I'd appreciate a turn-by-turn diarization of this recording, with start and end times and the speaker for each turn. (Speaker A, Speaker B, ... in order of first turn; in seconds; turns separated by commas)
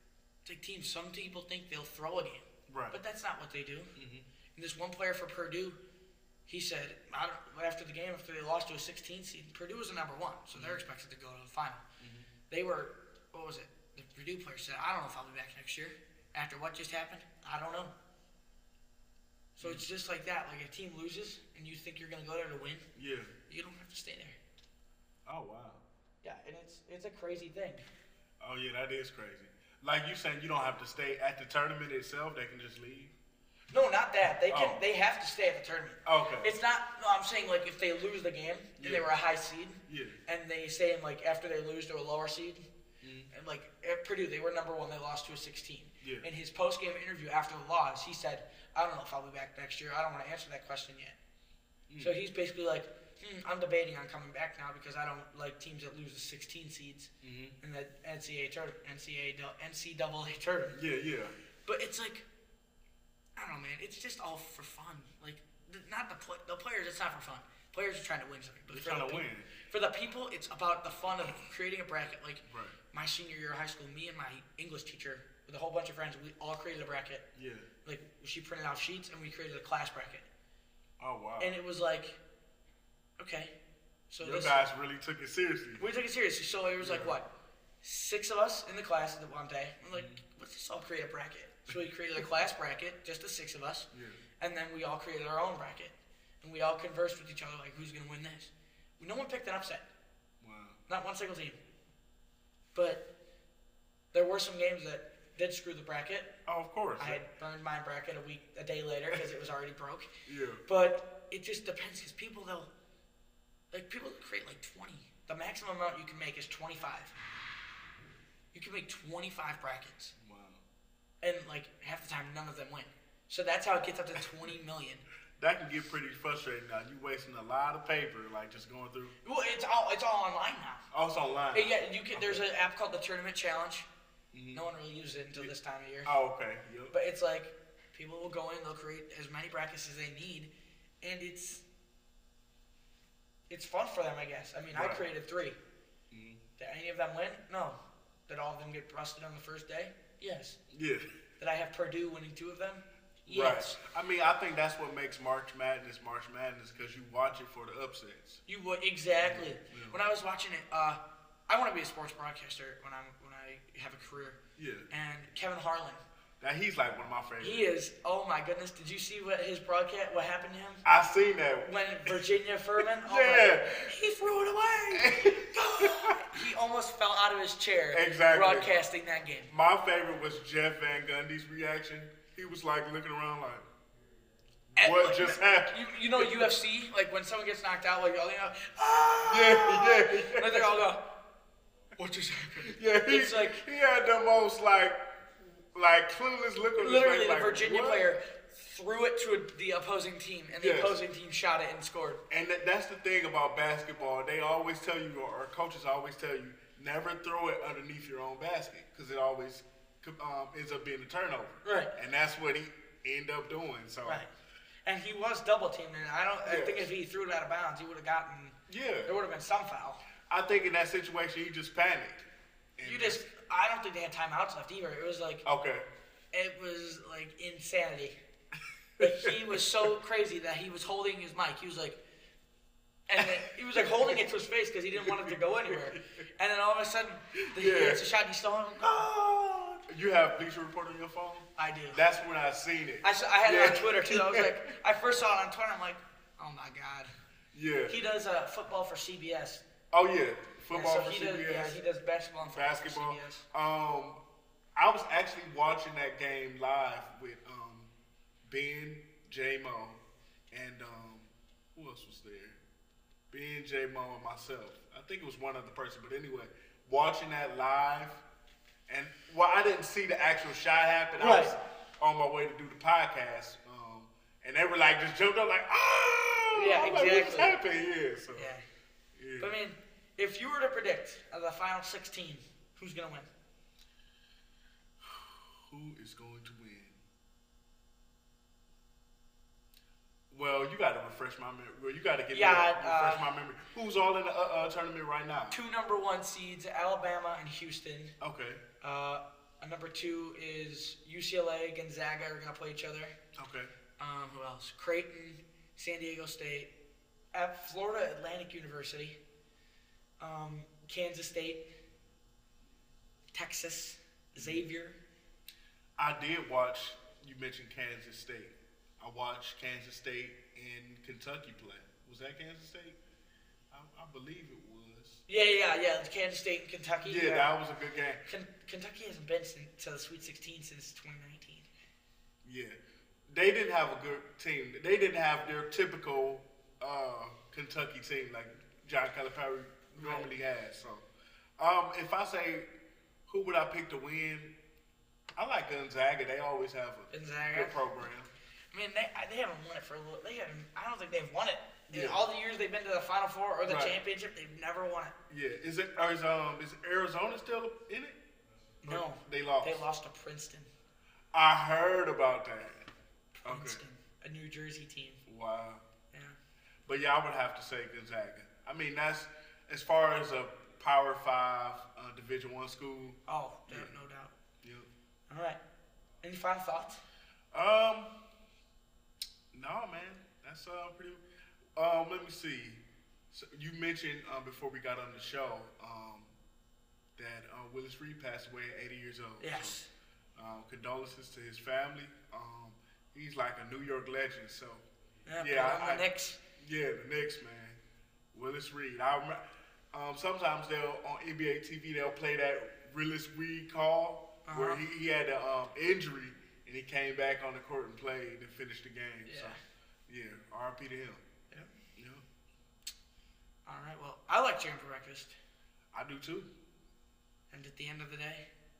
Speaker A: 0.4-3.9, Speaker B: 2.7-3.0, Speaker B: 4.0-4.3, Speaker A: 4.5-5.8, Speaker A: 6.5-11.8, Speaker B: 10.5-10.8, Speaker B: 12.0-12.3, Speaker A: 12.5-17.9, Speaker A: 19.6-22.9, Speaker B: 19.6-19.9, Speaker B: 22.9-23.3, Speaker A: 23.5-24.4, Speaker B: 25.2-25.8, Speaker A: 26.2-27.8, Speaker B: 28.4-33.1, Speaker A: 33.7-42.6, Speaker B: 34.5-34.8, Speaker B: 36.0-36.5, Speaker B: 38.8-39.1, Speaker B: 39.9-40.2, Speaker B: 43.0-43.3, Speaker A: 43.3-51.2, Speaker B: 46.0-46.3, Speaker B: 51.9-52.1, Speaker A: 52.0-60.8, Speaker B: 57.2-57.6, Speaker B: 60.7-61.3, Speaker A: 61.6-62.3, Speaker A: 63.4-77.3, Speaker B: 68.7-69.5, Speaker B: 72.4-72.8, Speaker B: 77.3-77.7, Speaker A: 77.8-80.3, Speaker B: 81.0-81.5, Speaker A: 81.4-82.2, Speaker A: 83.2-83.5, Speaker A: 84.1-84.6, Speaker B: 84.2-85.8, Speaker A: 85.8-87.3, Speaker B: 86.8-87.2, Speaker A: 87.8-99.9, Speaker B: 89.9-90.2, Speaker B: 93.9-94.2, Speaker B: 100.4-100.8, Speaker A: 100.9-101.6, Speaker A: 102.7-103.1, Speaker A: 104.1-106.3, Speaker B: 106.5-107.2, Speaker A: 107.0-110.1, Speaker B: 110.2-110.6, Speaker A: 110.7-112.7, Speaker A: 113.7-117.2, Speaker A: 118.5-120.1, Speaker B: 120.2-120.6, Speaker A: 121.2-125.0, Speaker B: 125.4-129.1, Speaker A: 129.2-130.8, Speaker B: 130.9-132.4, Speaker A: 131.5-133.9, Speaker B: 134.3-134.7, Speaker A: 134.5-136.2, Speaker B: 136.0-136.9, Speaker A: 136.9-140.5, Speaker A: 141.0-141.7, Speaker A: 143.5-145.6, Speaker B: 144.7-145.0, Speaker B: 146.1-146.4, Speaker A: 146.6-150.6, Speaker B: 150.7-151.1, Speaker A: 151.4-153.8, Speaker B: 153.3-158.4, Speaker A: 158.4-164.4, Speaker B: 159.2-160.0, Speaker B: 164.6-164.9, Speaker A: 164.9-166.0, Speaker B: 166.4-167.6, Speaker A: 167.4-170.8, Speaker B: 170.8-172.2, Speaker A: 171.6-179.5, Speaker B: 172.8-173.9, Speaker B: 174.9-176.4, Speaker B: 177.9-178.7, Speaker B: 179.5-183.7, Speaker A: 184.8-191.0, Speaker B: 184.8-186.5, Speaker B: 189.2-190.8, Speaker A: 191.9-193.6, Speaker B: 192.6-198.0, Speaker A: 196.8-202.2, Speaker B: 200.6-201.0, Speaker B: 202.3-214.2, Speaker A: 211.6-211.9, Speaker A: 214.0-214.3, Speaker A: 214.8-220.0, Speaker B: 216.4-216.9, Speaker B: 218.7-219.2, Speaker B: 220.3-222.3, Speaker B: 222.8-223.2, Speaker A: 222.8-225.4, Speaker B: 225.4-225.8, Speaker A: 226.3-228.2, Speaker B: 229.0-229.6, Speaker A: 229.0-232.0, Speaker A: 233.1-239.8, Speaker B: 233.2-234.1, Speaker B: 234.9-236.0, Speaker B: 237.4-238.0, Speaker B: 239.9-244.7, Speaker A: 241.6-242.0, Speaker A: 243.0-247.1, Speaker B: 247.5-247.9, Speaker A: 247.9-249.6, Speaker B: 249.9-251.8, Speaker A: 250.7-253.5, Speaker B: 252.4-254.2, Speaker B: 254.8-257.9, Speaker B: 258.4-262.6, Speaker B: 263.3-268.2, Speaker B: 268.9-278.5, Speaker A: 271.2-271.5, Speaker A: 276.5-277.6, Speaker A: 278.3-278.6, Speaker B: 279.1-279.5, Speaker A: 279.4-283.3, Speaker B: 285.0-287.0, Speaker B: 290.3-295.6, Speaker A: 292.3-293.3, Speaker A: 295.5-298.1, Speaker B: 298.2-298.6, Speaker A: 298.8-303.1, Speaker B: 303.3-303.7, Speaker A: 304.0-306.7, Speaker A: 307.3-309.2, Speaker A: 310.2-311.6, Speaker A: 313.3-315.0, Speaker B: 314.4-314.6, Speaker B: 316.0-323.0, Speaker B: 323.7-325.2, Speaker A: 325.3-327.5, Speaker B: 327.0-328.2, Speaker A: 328.2-331.7, Speaker B: 332.4-341.1, Speaker A: 339.9-340.3, Speaker B: 341.6-342.7, Speaker B: 343.3-344.5, Speaker B: 345.4-348.3, Speaker A: 347.1-347.9, Speaker A: 348.7-355.1, Speaker B: 351.9-352.2, Speaker B: 353.6-354.0, Speaker B: 355.3-358.2, Speaker A: 358.8-360.7, Speaker B: 358.8-359.8, Speaker B: 361.3-362.9, Speaker A: 363.3-365.2, Speaker B: 363.4-363.8, Speaker B: 365.2-365.8, Speaker B: 366.9-373.9, Speaker A: 373.3-374.3, Speaker B: 374.6-374.9, Speaker A: 375.3-375.6, Speaker A: 376.2-377.0, Speaker B: 377.5-378.1, Speaker B: 379.5-381.2, Speaker B: 381.8-386.3, Speaker B: 387.2-389.8, Speaker A: 389.4-389.9, Speaker B: 390.4-394.8, Speaker A: 395.2-396.4, Speaker B: 395.4-397.8, Speaker B: 398.3-399.4, Speaker B: 399.9-409.6, Speaker A: 404.4-404.8, Speaker A: 409.2-409.6, Speaker B: 410.1-411.2, Speaker B: 412.0-412.2, Speaker A: 413.6-415.4, Speaker B: 415.9-416.5, Speaker A: 417.5-418.4